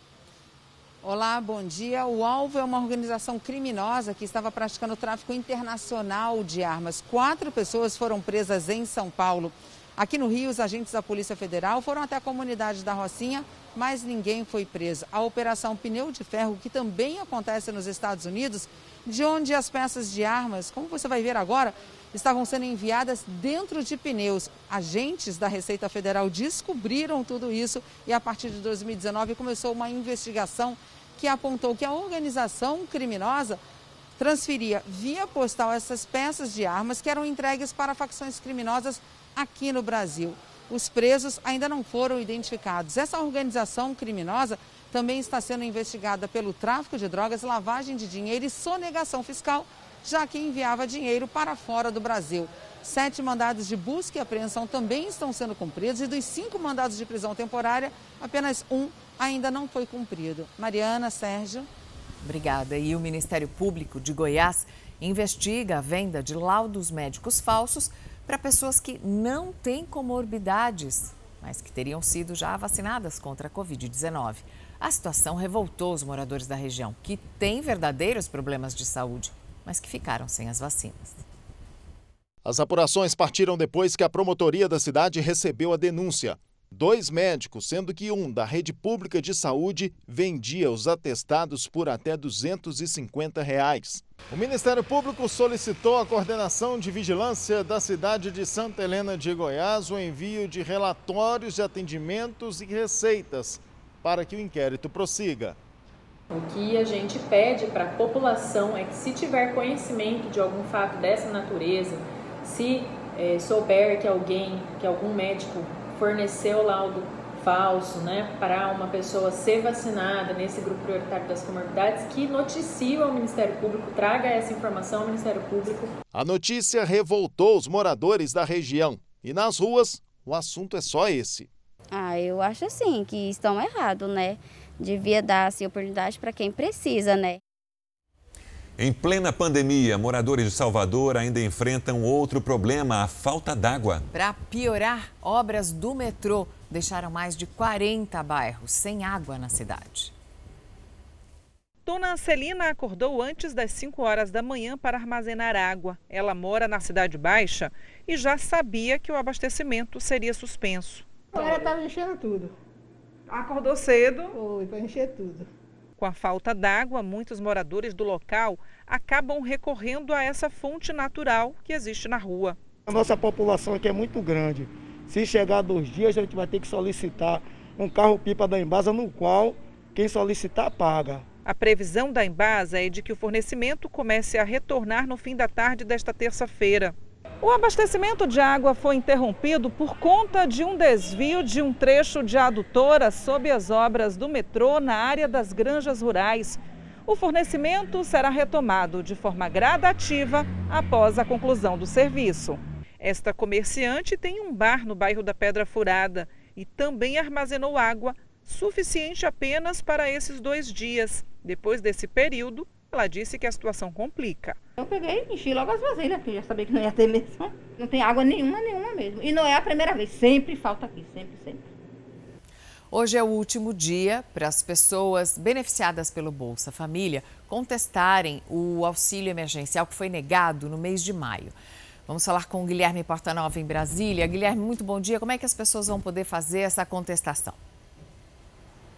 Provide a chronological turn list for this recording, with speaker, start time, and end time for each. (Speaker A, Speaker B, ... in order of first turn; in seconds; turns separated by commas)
Speaker A: 1.0-33.6, Speaker A: 34.2-61.7, Speaker B: 62.2-81.2, Speaker C: 82.4-105.6, Speaker D: 106.3-126.0, Speaker C: 126.1-131.5, Speaker E: 131.9-137.4, Speaker F: 138.8-144.0, Speaker B: 144.1-150.1, Speaker G: 151.8-161.6, Speaker H: 161.3-162.5, Speaker G: 163.3-164.3, Speaker H: 164.4-165.4, Speaker G: 166.0-172.6, Speaker H: 172.9-181.2, Speaker G: 181.4-214.6, Speaker H: 214.8-221.7, Speaker B: 222.9-231.5, Speaker B: 232.1-237.6